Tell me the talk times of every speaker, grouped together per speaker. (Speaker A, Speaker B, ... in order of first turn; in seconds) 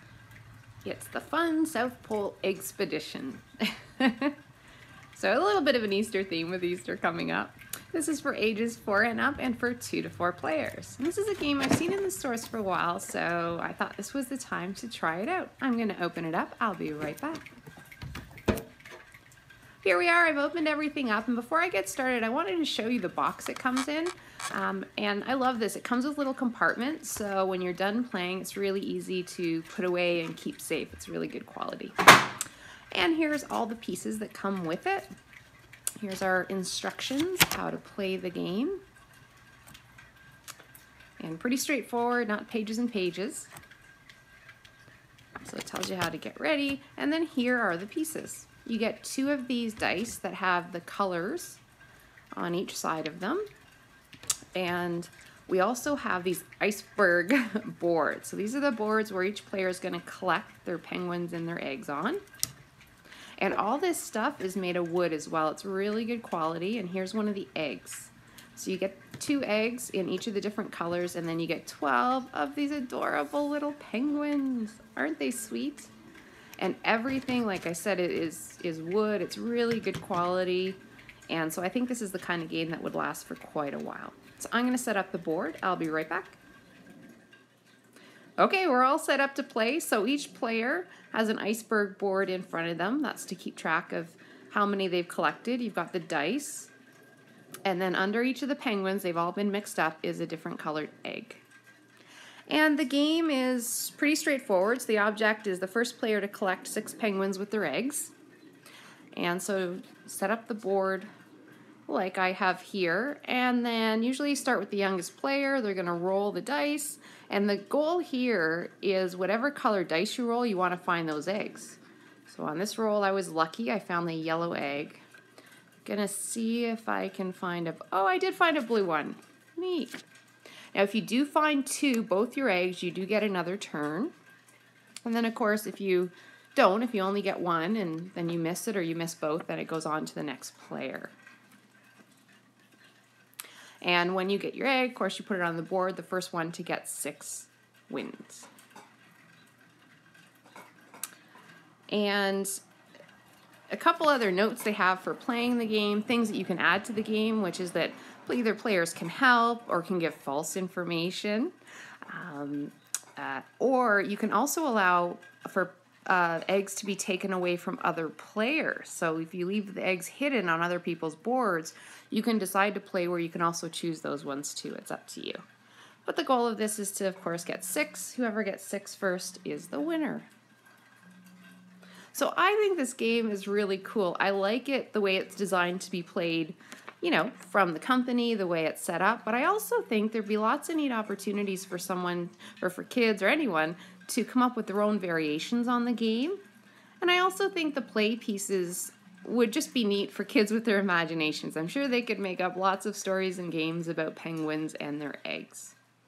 Speaker A: 0.8-4.4, 5.1-17.4, 19.8-32.0, 32.9-35.1, 36.0-38.8, 41.2-43.5, 45.4-51.6, 52.4-53.5, 54.5-62.2, 63.4-75.9, 76.6-86.4, 88.4-96.7, 97.7-101.5, 102.5-108.1, 109.2-111.1, 111.9-125.0, 125.8-130.1, 130.7-134.1, 135.1-141.2, 143.8-148.5, 151.9-152.6, 153.7-161.5, 162.1-175.4, 176.1-180.3, 182.1-196.4, 197.0-205.8